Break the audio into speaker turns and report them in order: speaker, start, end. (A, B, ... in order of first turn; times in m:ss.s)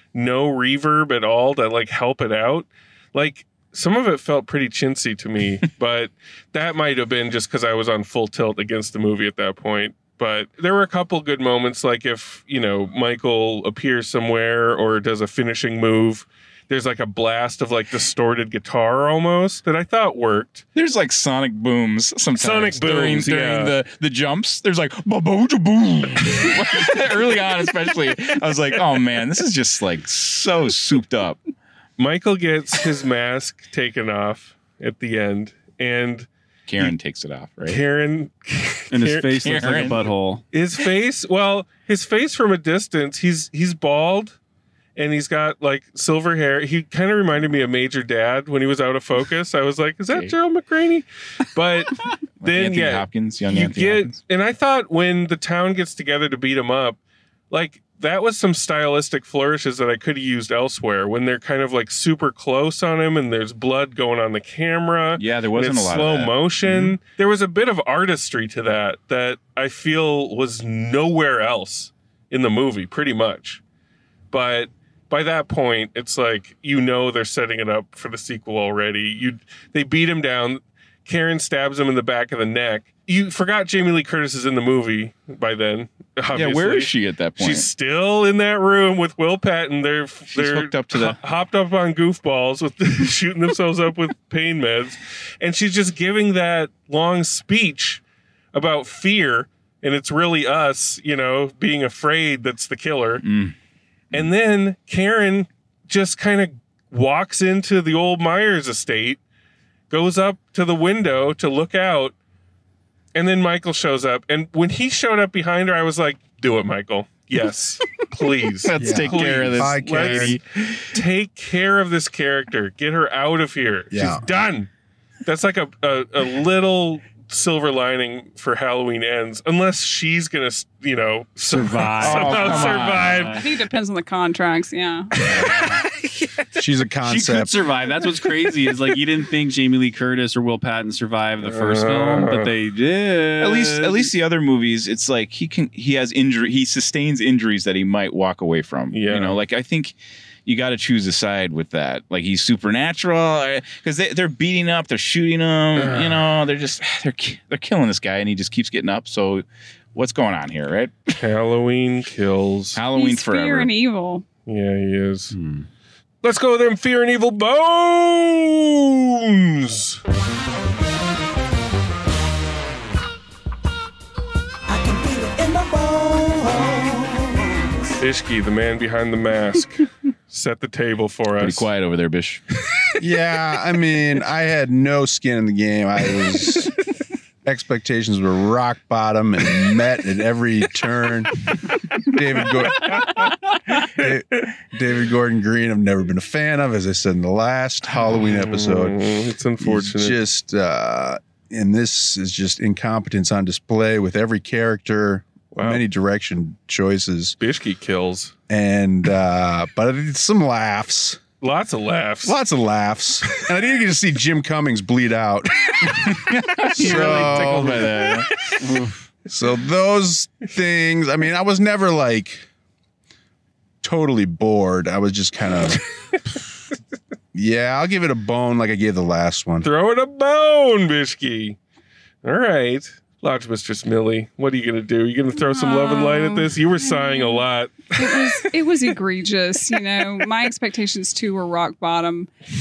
0:00.1-0:20.6 A
0:20.7-0:31.4 B
0:22.3-0:23.7 A
0:32.0-0:36.3 A
0:36.7-0:37.8 B
0:37.6-0:39.9 A
0:38.9-0:40.4 C
0:39.4-0:40.1 B
0:40.5-0:44.4 A
0:45.0-0:57.0 A
0:50.1-0:50.3 B
0:52.4-0:54.2 B
0:57.5-1:13.6 A
1:05.2-1:06.9 B
1:14.3-1:38.0 A
1:26.3-1:27.7 B
1:30.3-1:31.2 B
1:38.5-1:43.2 A
1:43.2-1:43.5 B
1:44.1-1:49.2 A
1:49.9-1:52.1 A
1:53.1-2:00.4 A
1:58.6-2:00.8 B
1:58.8-2:00.4 D
2:00.9-2:04.7 A
2:03.9-2:04.2 D
2:05.2-2:13.4 A
2:11.4-2:13.4 C
2:12.0-2:13.3 B
2:13.4-2:15.1 E
2:15.3-2:15.8 C
2:15.9-2:16.3 A
2:16.6-2:17.6 D
2:17.0-2:24.1 C
2:21.4-2:22.5 A
2:23.4-2:41.2 B
2:28.9-2:29.4 A
2:35.8-2:36.2 A
2:41.2-2:42.8 A
2:42.7-2:43.7 B
2:42.9-2:44.2 E
2:44.4-2:45.3 A
2:45.3-2:45.7 C
2:46.2-2:50.0 A
2:54.7-2:58.0 F
2:58.0-3:01.7 A
3:01.4-3:02.4 B
3:03.0-3:06.7 D
3:07.4-3:13.3 D
3:13.8-3:19.1 D
3:18.3-3:20.2 A
3:19.6-3:27.3 D
3:25.5-3:25.8 A
3:27.4-3:28.3 A
3:28.5-3:31.2 D
3:31.4-3:32.4 A
3:32.2-3:38.2 D
3:35.9-3:38.3 B
3:38.6-3:38.9 C
3:39.3-3:42.5 D
3:43.8-3:45.8 D
3:47.3-3:49.7 D
3:49.6-3:51.6 A
3:52.2-3:58.4 A
3:55.4-4:02.3 E